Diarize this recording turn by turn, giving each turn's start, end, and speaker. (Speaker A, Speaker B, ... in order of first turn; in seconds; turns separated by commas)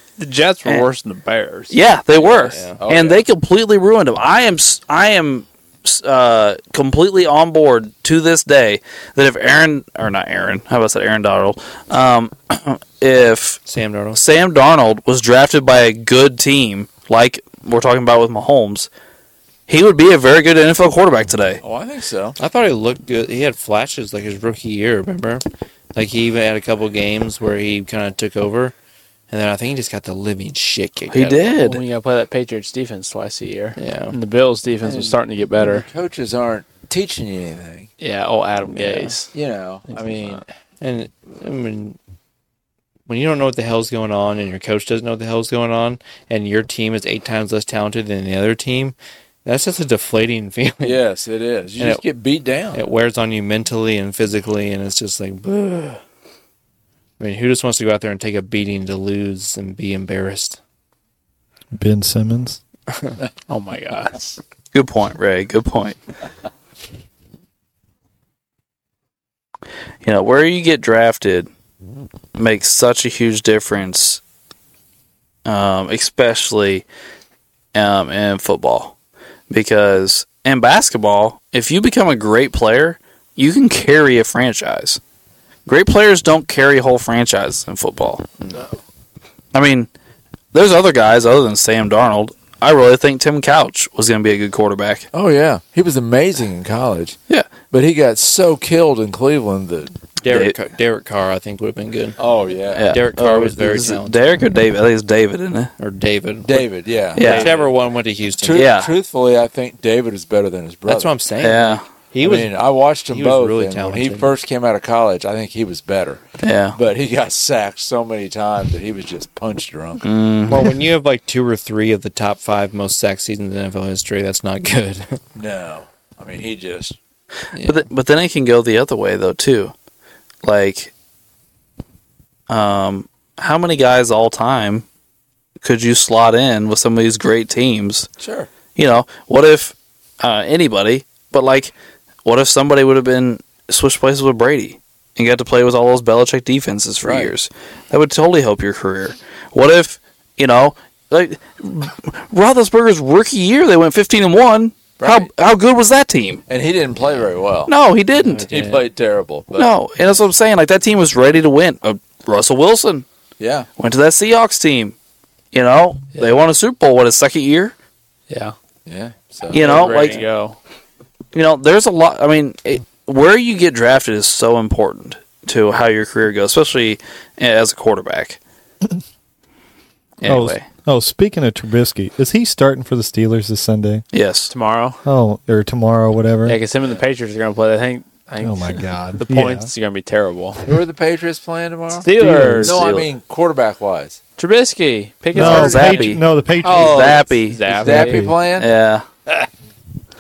Speaker A: 0.2-1.8, Speaker B: 1.7-13.6, Speaker C: 2.3-2.8, Speaker D: 2.8-3.2, Speaker C: 13.7-14.2, Speaker B: 14.2-18.9, Speaker B: 19.7-21.6, Speaker D: 21.6-22.4, Speaker C: 22.4-25.4, Speaker C: 25.9-28.8, Speaker C: 29.3-31.5, Speaker B: 31.1-31.8, Speaker A: 31.6-35.9, Speaker C: 33.8-34.1, Speaker D: 34.8-37.9, Speaker A: 38.0-39.3, Speaker C: 38.7-39.1, Speaker D: 39.3-40.4, Speaker A: 39.9-40.4, Speaker C: 40.8-42.0, Speaker C: 43.1-51.0, Speaker D: 50.8-52.8, Speaker C: 52.7-56.0, Speaker C: 57.2-60.6, Speaker E: 61.8-62.6, Speaker A: 63.5-64.4, Speaker B: 64.7-66.0, Speaker B: 70.0-71.5, Speaker B: 72.4-74.2, Speaker B: 75.5-76.9, Speaker B: 77.7-78.9, Speaker B: 79.5-85.0, Speaker B: 85.7-88.3, Speaker B: 89.5-89.9, Speaker B: 90.5-95.1, Speaker D: 95.1-97.2, Speaker D: 97.7-100.0, Speaker C: 100.2-102.2, Speaker B: 100.3-100.5, Speaker D: 102.2-102.9, Speaker B: 102.7-105.7, Speaker C: 102.9-104.2, Speaker C: 105.8-106.7, Speaker D: 106.5-107.4, Speaker B: 107.1-107.5, Speaker C: 107.2-108.7, Speaker A: 107.2-107.7, Speaker D: 108.4-111.1, Speaker B: 108.5-108.9, Speaker C: 110.9-112.5, Speaker B: 111.4-111.8, Speaker D: 112.2-116.2, Speaker C: 113.1-114.3, Speaker B: 116.4-116.8, Speaker D: 116.8-120.0, Speaker B: 120.0-120.7, Speaker C: 120.5-125.2, Speaker D: 125.3-127.0, Speaker C: 127.5-127.8, Speaker B: 127.6-129.7, Speaker B: 130.4-130.9, Speaker B: 132.5-134.9, Speaker B: 135.6-138.1, Speaker D: 138.2-138.5, Speaker B: 138.8-141.7, Speaker B: 142.2-156.4, Speaker D: 147.0-147.3, Speaker D: 155.0-155.3, Speaker D: 156.5-157.7, Speaker B: 157.7-158.5, Speaker D: 158.5-159.7, Speaker B: 159.6-163.1, Speaker D: 163.4-163.7, Speaker B: 163.8-164.9, Speaker B: 165.5-167.7, Speaker A: 168.3-168.6, Speaker D: 168.9-170.1, Speaker B: 169.5-170.2, Speaker A: 169.5-170.6, Speaker B: 171.3-178.4, Speaker B: 180.2-180.7, Speaker E: 180.2-184.1, Speaker B: 184.1-184.5, Speaker A: 184.5-185.0, Speaker E: 185.0-186.6, Speaker A: 186.5-190.6, Speaker E: 188.4-189.7, Speaker D: 190.6-192.1, Speaker A: 192.0-192.9, Speaker E: 192.2-192.7, Speaker D: 192.6-194.2, Speaker B: 192.7-193.1, Speaker A: 194.4-198.3, Speaker E: 195.3-198.3, Speaker D: 195.4-195.8, Speaker B: 195.4-196.2, Speaker B: 196.8-197.6, Speaker D: 197.7-198.7, Speaker B: 198.6-199.1